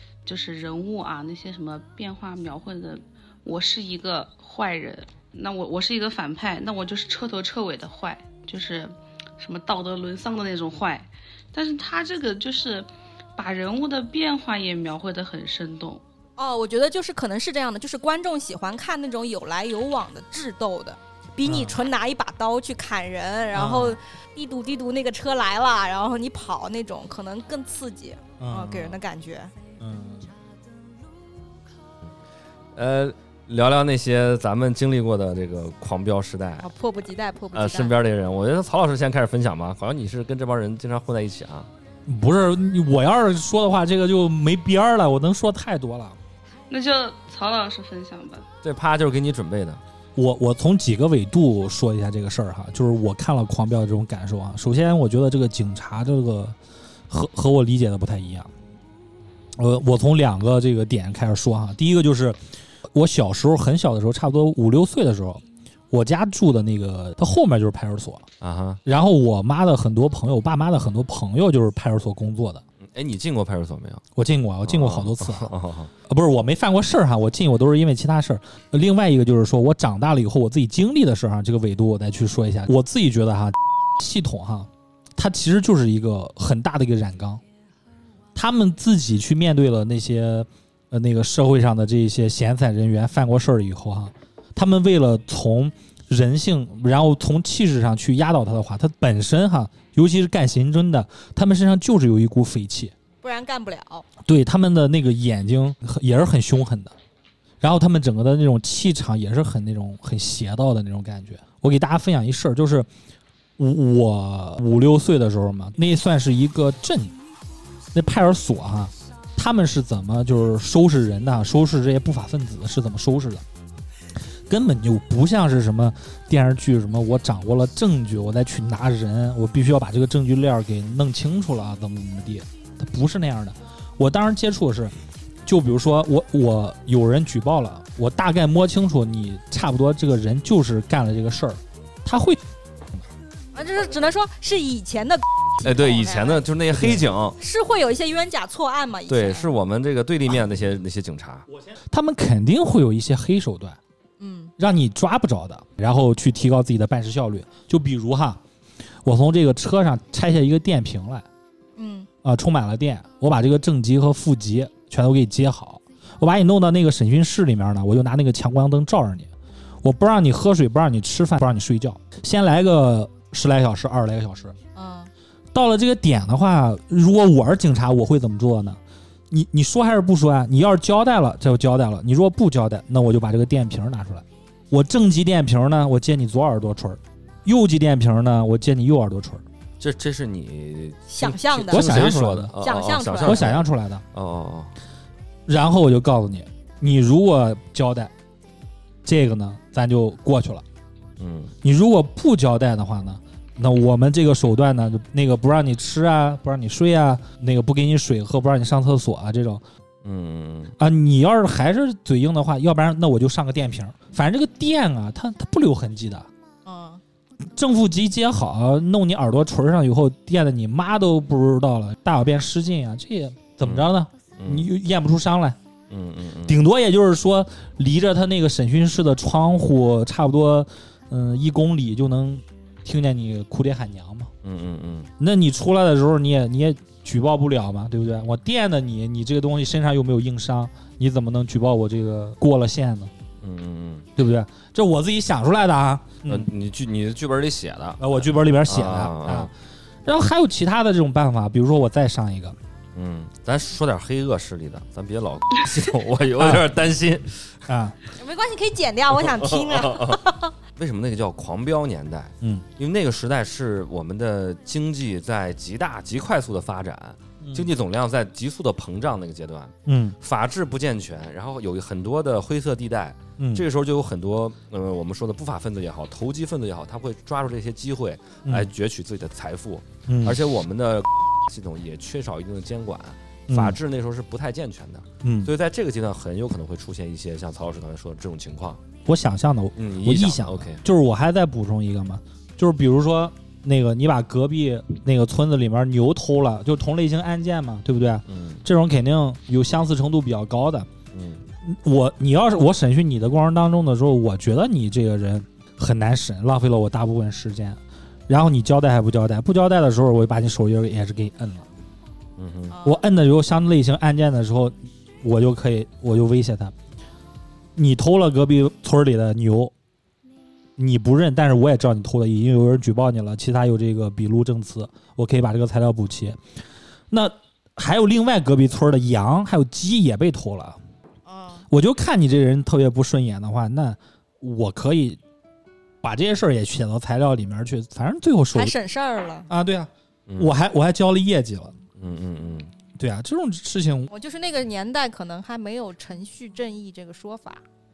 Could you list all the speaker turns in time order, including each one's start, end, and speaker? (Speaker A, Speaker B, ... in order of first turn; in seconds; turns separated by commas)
Speaker A: 0.2-16.0, Speaker B: 16.4-29.5, Speaker C: 21.4-21.8, Speaker C: 23.5-24.0, Speaker C: 28.4-28.9, Speaker C: 29.8-30.3, Speaker D: 32.7-36.7, Speaker B: 36.6-37.9, Speaker D: 37.5-41.7, Speaker C: 42.1-46.2, Speaker A: 46.7-48.5, Speaker D: 48.6-49.8, Speaker C: 50.1-56.5, Speaker C: 57.1-58.5, Speaker C: 59.6-62.4, Speaker C: 62.9-68.3, Speaker D: 68.4-68.8, Speaker C: 68.8-72.6, Speaker D: 72.8-74.0, Speaker C: 74.2-75.5, Speaker D: 74.6-75.9, Speaker C: 76.1-87.4, Speaker C: 88.3-102.9, Speaker B: 103.2-104.0, Speaker C: 104.2-106.9, Speaker C: 107.6-112.9, Speaker C: 113.6-117.1, Speaker C: 117.9-123.4, Speaker C: 124.5-134.9, Speaker C: 135.4-142.4, Speaker B: 143.5-146.4, Speaker D: 145.6-147.4, Speaker C: 146.7-147.0, Speaker B: 147.4-149.5, Speaker D: 149.1-151.4, Speaker C: 151.6-153.8, Speaker B: 154.2-154.5, Speaker C: 154.6-158.4, Speaker C: 159.0-161.2, Speaker B: 161.8-162.1, Speaker C: 162.2-169.3, Speaker C: 169.8-174.6, Speaker B: 174.8-175.1, Speaker C: 175.5-178.8, Speaker C: 179.3-189.4, Speaker D: 189.8-194.7, Speaker B: 191.1-193.6, Speaker C: 191.2-192.6, Speaker C: 193.2-194.0, Speaker C: 195.5-198.1, Speaker C: 199.0-200.6, Speaker D: 201.2-201.5, Speaker C: 201.6-209.6, Speaker D: 210.0-210.8, Speaker C: 210.8-216.3, Speaker B: 216.6-217.0, Speaker C: 217.5-225.6, Speaker D: 223.6-224.7, Speaker D: 225.9-226.6, Speaker C: 226.5-234.3, Speaker D: 234.4-235.1, Speaker C: 235.2-243.1, Speaker D: 243.4-244.1, Speaker C: 244.2-246.5, Speaker D: 246.2-249.5, Speaker C: 248.0-249.5, Speaker C: 250.0-252.6, Speaker D: 252.9-257.6, Speaker C: 256.4-256.6, Speaker C: 257.7-258.0, Speaker B: 258.1-260.5, Speaker D: 259.1-260.2, Speaker D: 260.8-288.8, Speaker C: 267.4-267.7, Speaker C: 269.9-270.1, Speaker C: 273.4-273.6, Speaker C: 278.4-278.7, Speaker C: 280.1-280.4, Speaker C: 283.5-283.8, Speaker C: 285.2-285.5, Speaker C: 289.1-300.9, Speaker D: 289.8-290.8, Speaker D: 298.2-298.6, Speaker D: 301.1-301.4, Speaker C: 301.6-311.7, Speaker D: 312.4-312.8, Speaker B: 312.7-313.0, Speaker C: 312.8-316.7, Speaker C: 317.8-319.7, Speaker C: 320.8-326.4, Speaker C: 327.1-330.8, Speaker B: 331.2-331.6, Speaker C: 331.7-335.2, Speaker C: 336.0-338.7, Speaker B: 338.5-339.5, Speaker C: 339.5-341.7, Speaker D: 340.3-340.6, Speaker D: 342.0-342.7, Speaker C: 343.0-344.1, Speaker B: 344.1-347.6